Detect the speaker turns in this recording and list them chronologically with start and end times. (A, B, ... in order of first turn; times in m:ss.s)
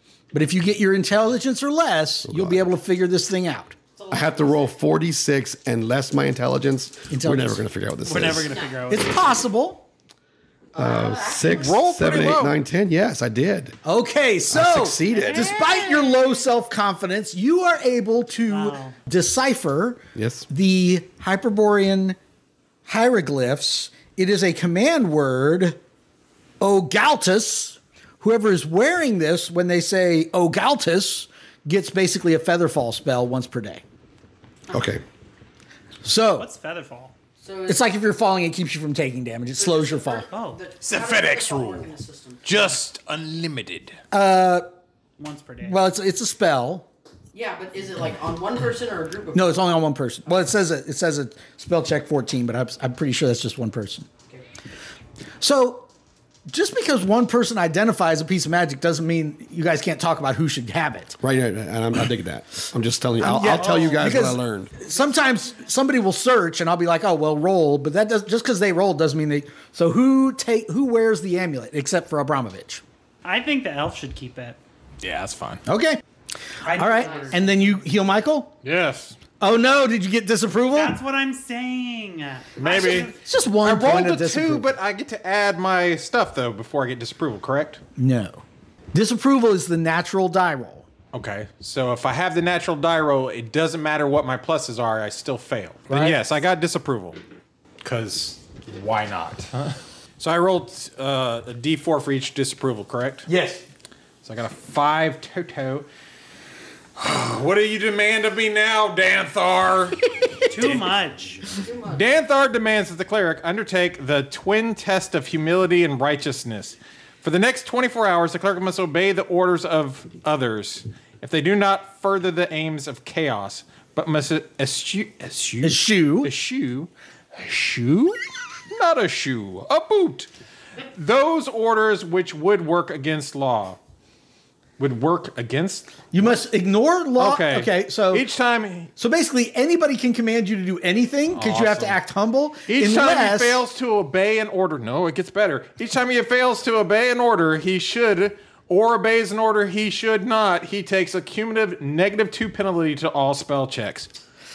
0:00.3-0:03.8 A
0:02.3-0:02.7 B
0:04.0-0:04.7 C
0:04.1-0:08.6 B
0:07.1-0:07.6 A
0:08.1-0:09.3 D
0:08.5-0:08.9 C
0:08.9-0:09.8 A
0:10.7-0:11.8 C
0:10.8-0:13.8 B
0:11.5-0:12.6 E
0:13.8-0:22.2 A
0:14.5-0:15.5 B
0:15.1-0:16.3 C
0:18.5-0:19.0 D
0:20.2-0:20.5 B
0:22.9-0:25.8 A
0:26.6-0:33.8 A
0:34.7-0:35.0 B
0:36.0-0:36.5 A
0:36.4-0:37.1 D
0:37.4-0:37.8 C
0:37.7-0:40.3 A
0:39.6-0:42.8 C
0:40.3-0:40.6 D
0:40.8-0:41.9 E
0:42.4-0:44.0 E
0:44.1-0:44.7 A
0:45.2-0:45.8 D
0:45.6-0:46.9 A
0:47.3-0:49.5 C
0:49.3-0:54.1 A
0:55.4-0:55.9 A
0:56.5-1:01.2 A
1:01.2-1:04.7 B
1:03.2-1:12.8 A
1:03.5-1:04.1 D
1:13.2-1:14.6 D
1:15.0-1:15.6 E
1:15.7-1:16.0 A
1:16.6-1:17.5 D
1:16.6-1:17.6 C
1:16.6-1:18.6 A
1:18.6-1:19.2 E
1:19.4-1:21.0 A
1:20.7-1:23.2 D
1:22.6-1:23.1 E
1:23.0-1:24.7 A
1:23.6-1:27.8 E
1:28.0-1:30.9 A
1:31.1-1:37.2 E
1:35.9-1:36.3 A
1:37.8-1:43.3 E
1:43.3-1:43.6 A
1:44.2-1:45.9 E
1:47.0-1:50.0 E
1:50.5-1:51.4 D
1:50.5-1:51.0 E
1:51.6-1:52.0 C
1:51.8-2:08.2 E
2:05.6-2:06.3 A
2:08.7-2:10.3 E
2:10.8-2:13.8 E
2:14.8-2:16.4 E
2:16.1-2:18.3 A
2:17.2-2:18.9 E
2:19.0-2:23.6 A
2:21.3-2:22.0 E
2:22.7-2:34.1 E